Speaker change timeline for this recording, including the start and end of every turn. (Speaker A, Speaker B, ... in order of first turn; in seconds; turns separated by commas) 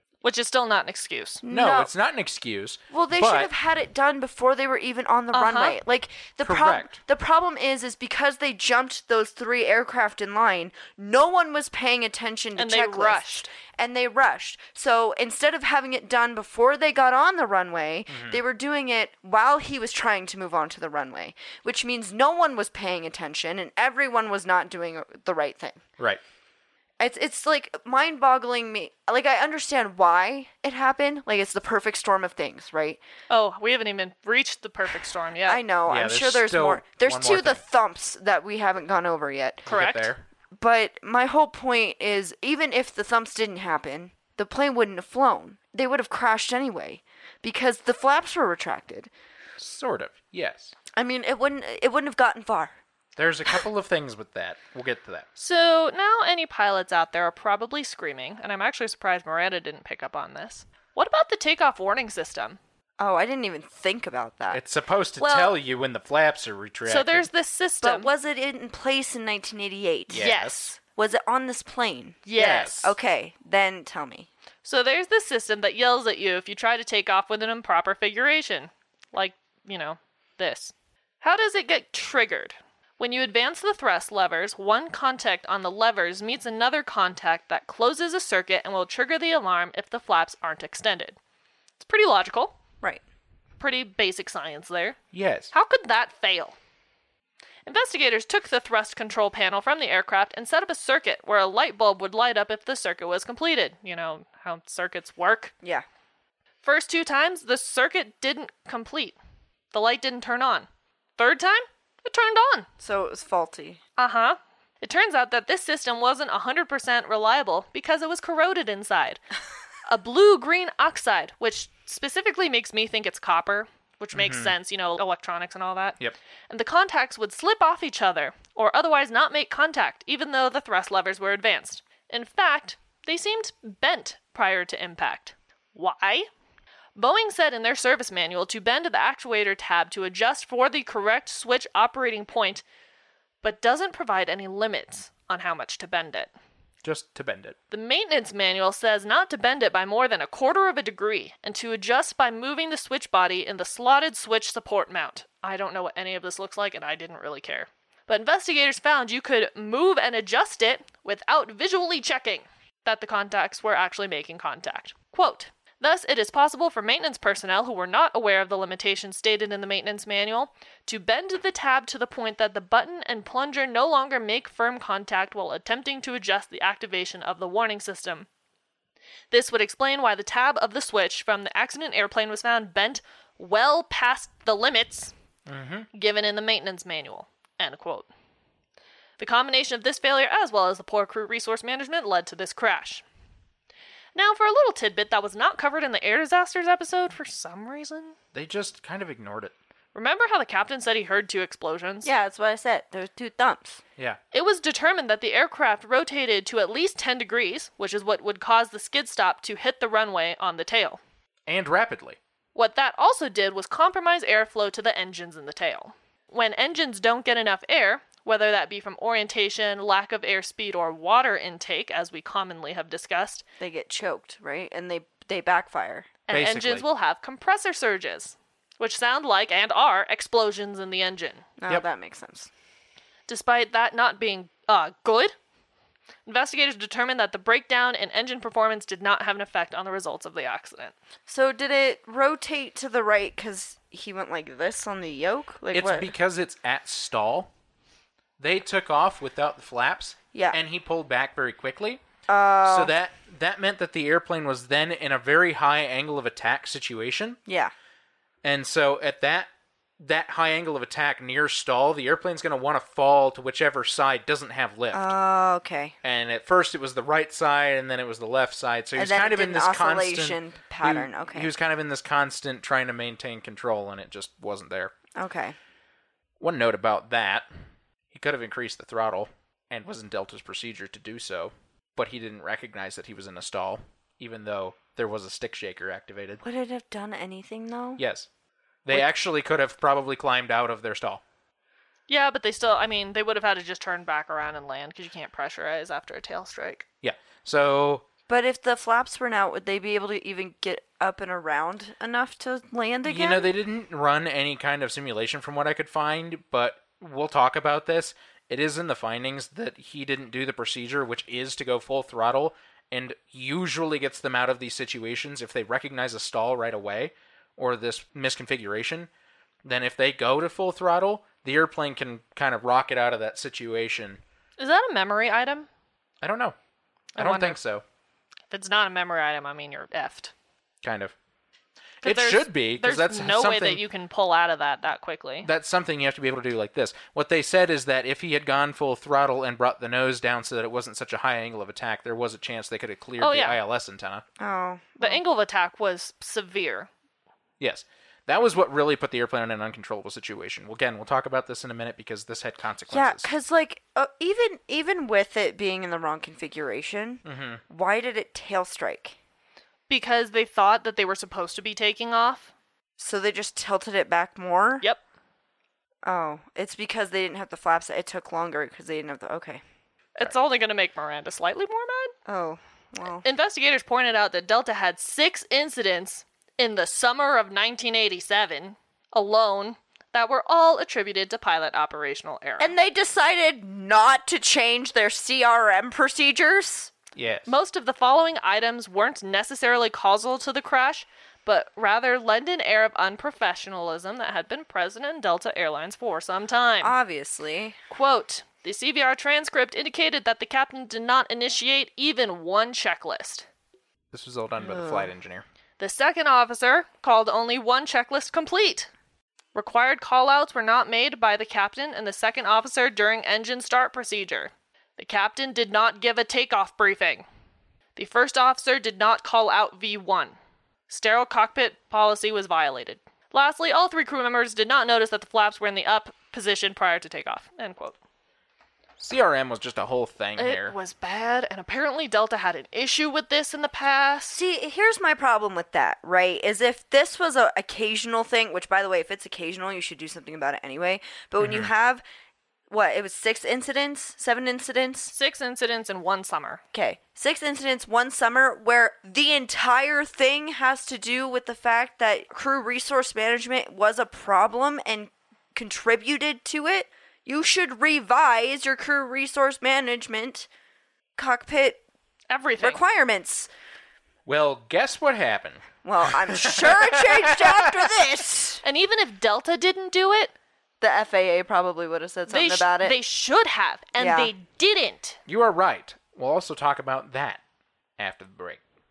Speaker A: 0.2-1.4, Speaker B: 1.4-1.9, Speaker C: 1.5-3.5, Speaker B: 2.9-25.8, Speaker A: 5.3-5.8, Speaker C: 6.4-7.0, Speaker A: 12.6-13.5, Speaker C: 18.1-18.4, Speaker B: 27.0-33.0, Speaker A: 33.3-35.6, Speaker B: 35.5-39.7, Speaker C: 35.9-37.6, Speaker C: 39.7-40.2, Speaker A: 39.7-40.1, Speaker B: 40.5-49.1, Speaker C: 49.6-50.7, Speaker B: 50.9-52.7, Speaker C: 53.2-55.3, Speaker A: 55.4-62.6, Speaker B: 63.0-64.6, Speaker C: 64.5-67.3, Speaker A: 65.2-65.5, Speaker A: 66.8-68.1, Speaker B: 67.8-70.3, Speaker C: 70.1-70.7, Speaker A: 70.1-70.8, Speaker B: 70.9-74.3, Speaker A: 72.3-72.8, Speaker C: 72.4-72.9, Speaker A: 74.6-91.2, Speaker A: 91.8-92.5, Speaker A: 93.6-95.0, Speaker C: 95.1-95.5, Speaker A: 95.5-96.5, Speaker A: 97.7-105.5, Speaker A: 106.6-109.2, Speaker A: 109.7-112.7, Speaker B: 112.8-113.8, Speaker A: 114.0-119.2, Speaker A: 119.9-126.0, Speaker C: 124.1-124.5, Speaker A: 126.5-136.3, Speaker A: 136.9-142.6, Speaker A: 143.4-146.3, Speaker C: 146.8-147.6, Speaker A: 147.7-178.3, Speaker A: 179.3-185.1, Speaker C: 185.5-185.9, Speaker A: 185.9-188.1, Speaker A: 189.2-193.0, Speaker A: 194.1-198.1, Speaker C: 198.3-199.5, Speaker A: 199.9-202.1, Speaker B: 202.0-203.8, Speaker A: 204.3-211.0, Speaker C: 211.5-212.2, Speaker A: 212.6-223.4, Speaker B: 223.6-226.1, Speaker A: 226.3-231.5, Speaker C: 226.3-226.8, Speaker B: 231.6-232.5, Speaker A: 233.3-235.3, Speaker A: 236.3-240.9, Speaker B: 241.3-246.1, Speaker C: 245.7-247.5, Speaker C: 248.4-252.0, Speaker B: 250.3-250.6, Speaker B: 252.3-252.9, Speaker C: 252.6-257.4, Speaker B: 257.4-257.7, Speaker C: 258.4-259.5, Speaker C: 260.0-265.1, Speaker B: 264.9-265.9, Speaker C: 266.0-274.9, Speaker B: 268.9-271.5, Speaker B: 275.2-275.6, Speaker C: 276.4-277.5, Speaker C: 278.1-286.4, Speaker B: 286.4-288.0, Speaker C: 288.0-288.3, Speaker C: 288.9-291.2, Speaker A: 292.1-296.9, Speaker C: 297.0-298.1, Speaker B: 298.3-303.5, Speaker C: 303.1-319.1, Speaker C: 319.6-324.2, Speaker A: 324.6-325.7, Speaker C: 326.2-326.6, Speaker A: 327.2-327.6, Speaker C: 327.2-327.8, Speaker A: 328.5-330.3, Speaker C: 330.8-331.1, Speaker C: 332.0-333.8, Speaker A: 332.0-335.5, Speaker C: 335.4-344.2, Speaker A: 343.2-343.6, Speaker B: 344.4-345.2, Speaker A: 345.0-346.9, Speaker C: 347.6-353.3, Speaker B: 352.9-359.2, Speaker C: 357.2-357.6, Speaker A: 359.9-362.5, Speaker B: 363.0-364.9, Speaker B: 366.1-369.6, Speaker A: 370.2-372.1, Speaker B: 372.3-373.3, Speaker A: 373.2-382.7, Speaker B: 382.6-386.9, Speaker C: 387.1-387.5, Speaker A: 387.5-396.9, Speaker B: 396.8-397.8, Speaker A: 397.9-403.4, Speaker C: 404.1-405.4, Speaker B: 404.6-405.1, Speaker A: 405.8-408.9, Speaker A: 409.5-417.3, Speaker A: 417.9-420.4, Speaker A: 420.9-428.0, Speaker C: 429.0-430.7, Speaker A: 430.4-434.4, Speaker B: 434.3-442.0, Speaker C: 441.4-441.7, Speaker B: 442.7-445.1, Speaker A: 445.1-446.6, Speaker B: 446.7-460.5, Speaker B: 461.2-461.8, Speaker A: 462.3-462.8, Speaker B: 462.6-463.5, Speaker C: 464.3-467.7, Speaker B: 465.8-468.6, Speaker A: 468.6-470.3, Speaker B: 470.8-473.0, Speaker A: 472.3-475.2, Speaker B: 474.0-474.3, Speaker C: 475.3-477.4, Speaker C: 478.0-478.6